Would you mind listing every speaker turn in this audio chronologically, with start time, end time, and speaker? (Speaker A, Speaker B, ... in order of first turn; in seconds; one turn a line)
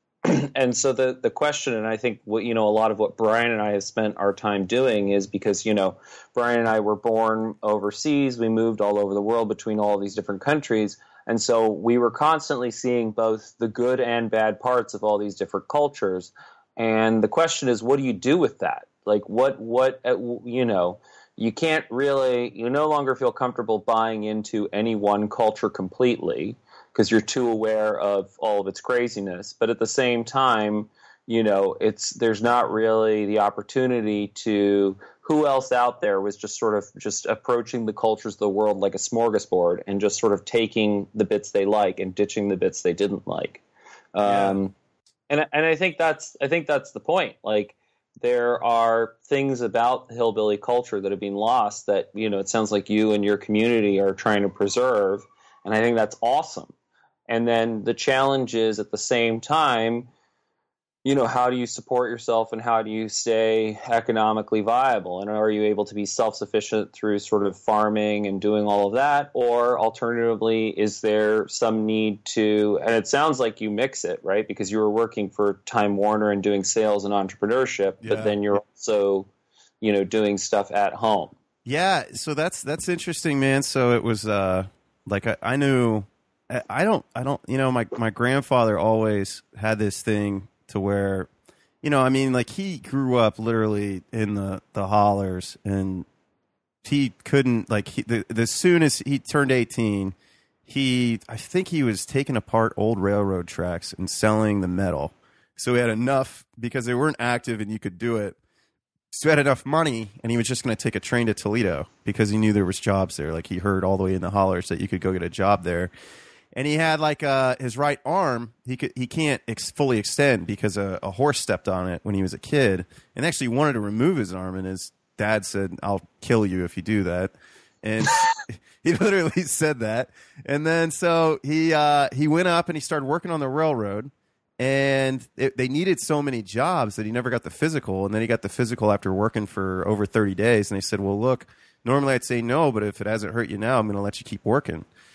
Speaker A: 0.2-43.6
Speaker A: 44.1-44.7
Speaker B: 44.2-44.6
Speaker A: 45.3-56.7
Speaker A: 57.3-60.1
Speaker A: 61.0-79.3
Speaker B: 78.0-78.4
Speaker A: 79.8-81.3
Speaker B: 81.7-91.3
Speaker B: 91.8-96.1
Speaker B: 96.8-108.4
Speaker B: 109.1-115.9
Speaker B: 116.5-144.9